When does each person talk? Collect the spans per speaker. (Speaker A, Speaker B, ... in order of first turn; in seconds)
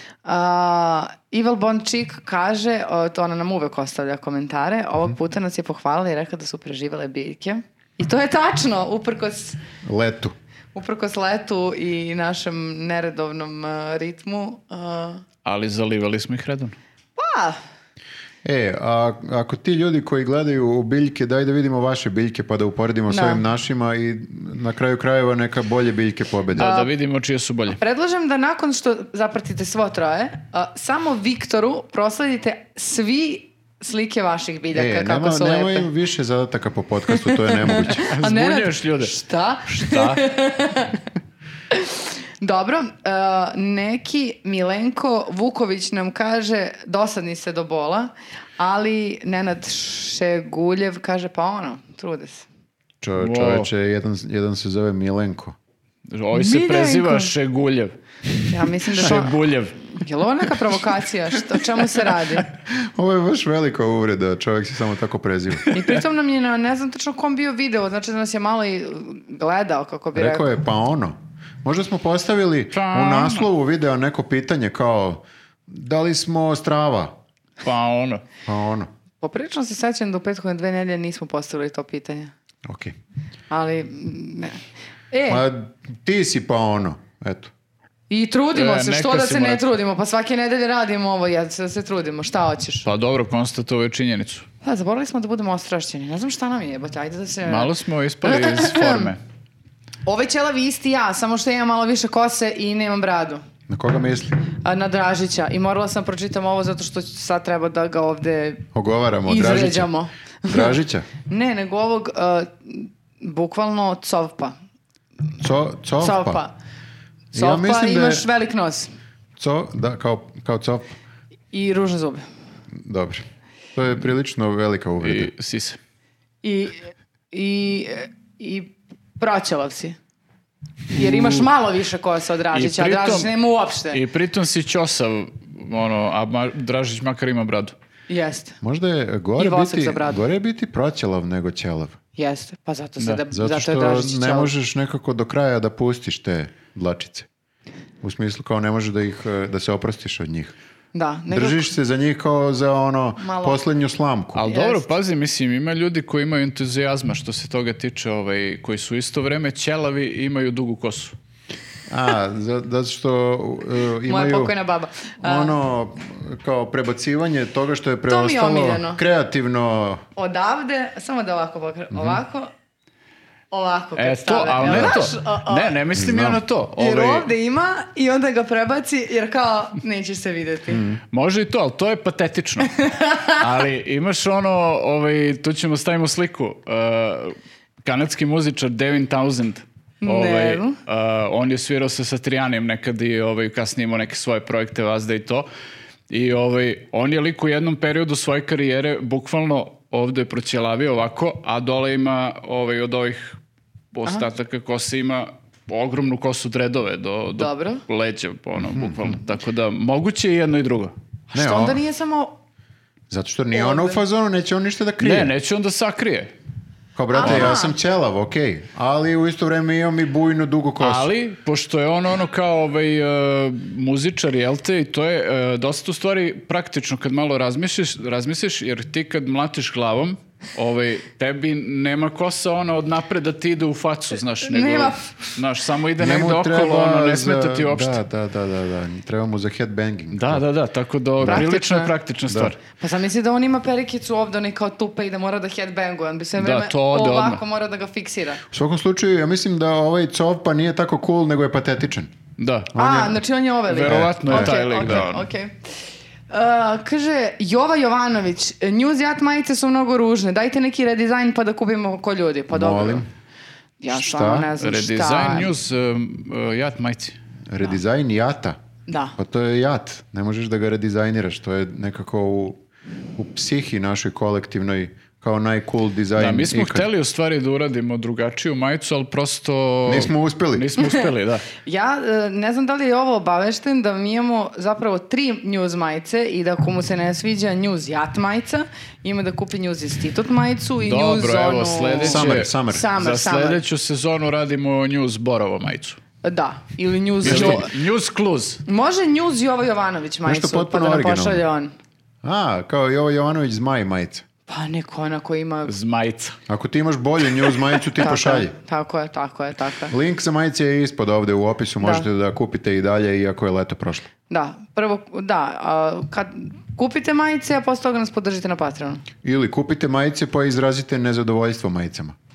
Speaker A: 0.2-9.6, 10.8-15.2, 17.2-17.6, 23.1-23.4, 26.6-26.9, 27.8-35.9, 37.1-41.0, 41.7-52.5, 56.3-57.3, 58.5-62.5, 65.7-70.5, 79.2-82.3, 83.5-85.5, 88.1-92.9, 94.6-97.7, 98.2-99.1, 100.1-103.4, 104.6-108.7, 109.3-114.6, 116.0-116.5, 117.3-118.9, 121.5-122.2, 126.4-130.0, 130.9-134.0, 138.1-138.6, 139.4-140.2, 142.2-144.5, 150.9-151.7, 153.2-153.6, 154.5-154.9, 164.1-165.6, 168.1-169.0, 170.2-172.5, 173.5-175.8, 176.8-180.8, 182.8-183.4, 190.0-190.8, 207.4-207.8, 211.3-212.4, 213.5-214.0, 217.1-217.8, 234.4-235.4, 241.2-241.9, 242.8-248.4, 252.8-255.7, 256.3-263.1, 263.8-265.5, 268.9-269.2, 281.6-293.6, 296.2-297.7, 298.7-301.7, 304.5-305.7, 307.9-309.9, 311.8-312.1, 314.3-319.0
Speaker B: 9.8-10.3, 18.4-26.7, 34.7-38.0, 53.0-55.5, 62.7-65.7, 70.1-77.2, 78.5-78.9, 82.7-83.0, 85.3-87.5, 103.7-104.3, 108.7-109.9, 110.5-111.1, 115.4-116.4, 117.3-118.3, 119.4-121.0, 122.8-125.3, 138.6-142.0, 143.3-147.3, 148.0-150.5, 151.3-154.4, 161.9-164.5, 165.2-170.0, 171.9-172.2, 174.6-175.0, 175.9-176.4, 180.7-181.0, 208.6-209.2, 211.3-211.8, 213.1-215.3, 217.0-221.1, 236.0-240.4, 242.3-242.5, 248.5-252.1, 252.7-253.2, 253.8-254.6, 262.5-263.1, 263.9-264.5, 267.5-268.6, 269.2-272.6, 273.2-276.9, 279.9-280.7, 292.0-292.9, 297.2-297.6, 300.3-301.4, 302.2-304.2, 306.5-308.5, 309.9-314.1, 319.2-322.2
Speaker C: 15.4-16.8, 26.6-27.8, 38.1-39.1, 39.7-40.3, 53.2-53.7, 56.1-58.0, 58.9-59.9, 72.7-73.5, 77.6-78.2, 88.5-89.6, 92.8-94.5, 97.5-99.2, 125.0-125.8, 130.9-131.5, 132.5-133.3, 133.9-137.8, 154.3-161.2, 174.0-177.3, 181.1-195.5, 196.1-203.4, 203.9-210.9, 215.0-216.3, 217.2-217.6, 220.8-238.0, 240.1-242.6, 246.4-247.4, 252.4-252.7, 253.7-255.3, 264.6-267.2, 276.1-281.5, 290.8-296.0, 297.2-298.6, 305.6-306.4